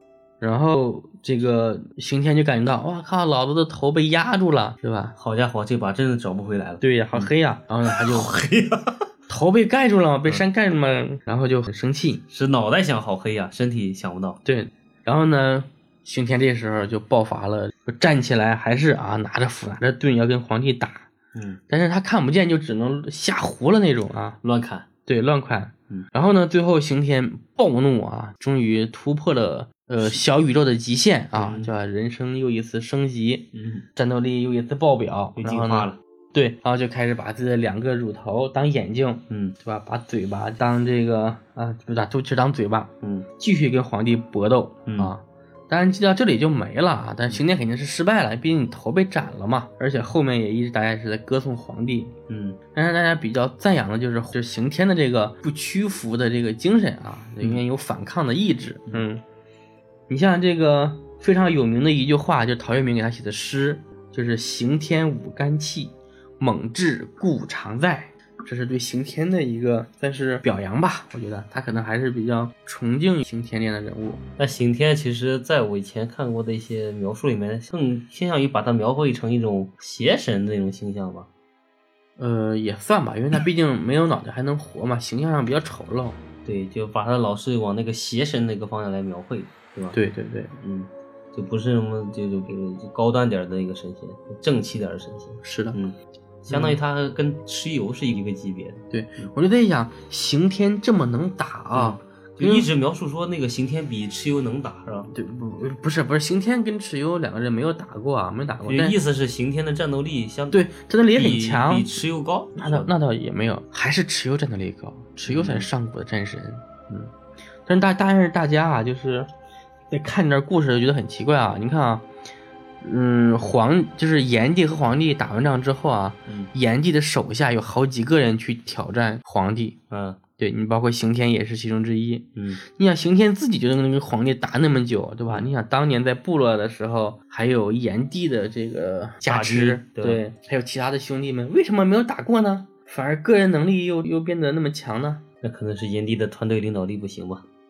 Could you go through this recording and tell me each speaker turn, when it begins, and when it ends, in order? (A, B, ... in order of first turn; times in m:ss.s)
0:00.4-0:05.1 A
0:05.2-0:07.3 B
0:06.8-0:08.3 A
0:07.8-0:09.0 B
0:09.3-0:12.2 A
0:12.3-0:14.4 B
0:14.4-0:21.1 A
0:21.3-0:21.6 B
0:21.7-0:24.4 A
0:24.4-0:24.9 B
0:25.1-0:52.1 A
0:31.3-0:31.7 B
0:33.5-0:33.8 B
0:35.4-0:36.0 B
0:39.3-0:39.5 B
0:43.0-0:43.3 B
0:44.8-0:45.1 B
0:52.3-0:52.6 B
0:52.7-0:59.2 A
1:00.1-1:14.2 A
1:14.4-1:21.3 B
1:22.2-1:26.2 A
1:26.4-1:30.0 B
1:29.9-1:30.5 A
1:30.6-1:39.3 B
1:35.4-1:35.8 A
1:36.5-1:36.8 A
1:38.9-1:42.7 A
1:41.7-1:45.1 B
1:45.1-1:49.0 A
1:48.6-1:52.9 B
1:50.5-1:51.9 A
1:52.6-1:57.1 A
1:55.3-1:55.7 B
1:57.7-1:59.3 A
1:59.9-2:02.0 A
2:02.8-2:09.8 A
2:09.9-2:10.2 B
2:10.4-2:25.2 A
2:12.4-2:12.6 B
2:19.2-2:20.2 B
2:25.4-2:27.4 B